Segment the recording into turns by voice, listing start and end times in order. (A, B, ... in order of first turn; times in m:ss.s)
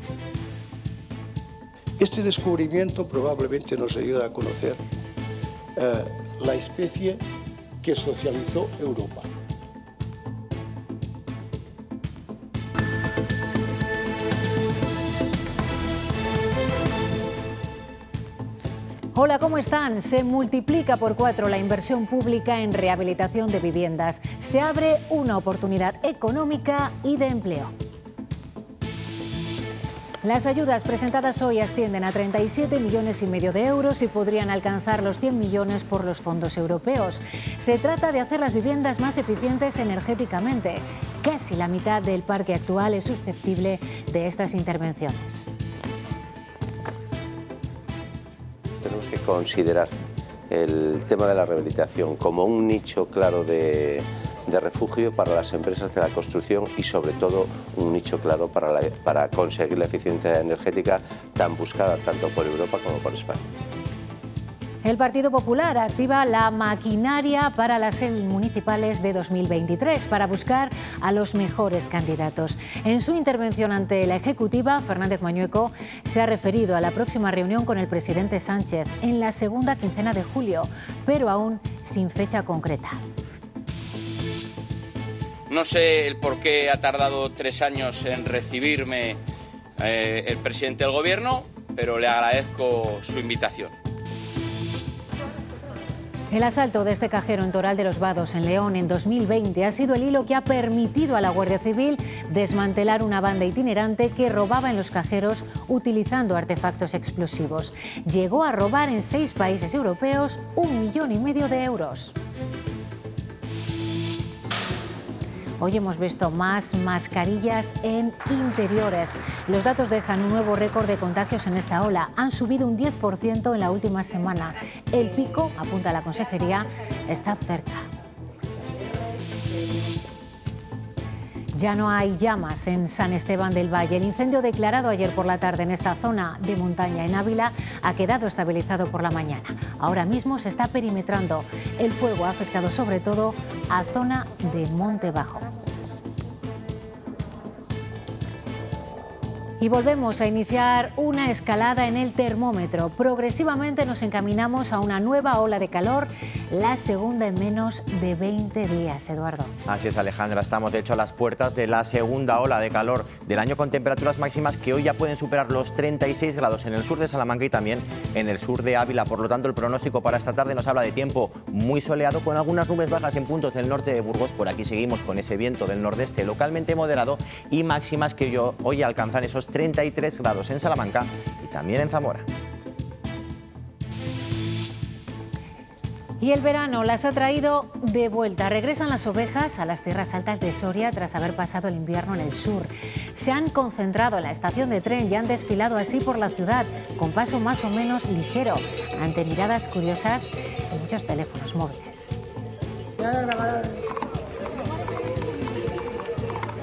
0:02.0-0:04.8 A
0:05.8-0:07.2 A
0:07.8-0:09.3 A
0:19.1-0:27.7 B
0:30.2-0:45.5 B
0:48.8-0:49.9 C
0:50.5-1:03.5 C
1:04.8-1:23.0 B
1:25.5-1:29.2 D
1:29.8-1:33.7 D
1:36.3-1:52.2 B
1:55.6-2:07.9 B
2:11.6-2:25.5 B
2:29.6-2:39.6 B
2:39.7-3:02.3 E
3:06.2-3:22.2 B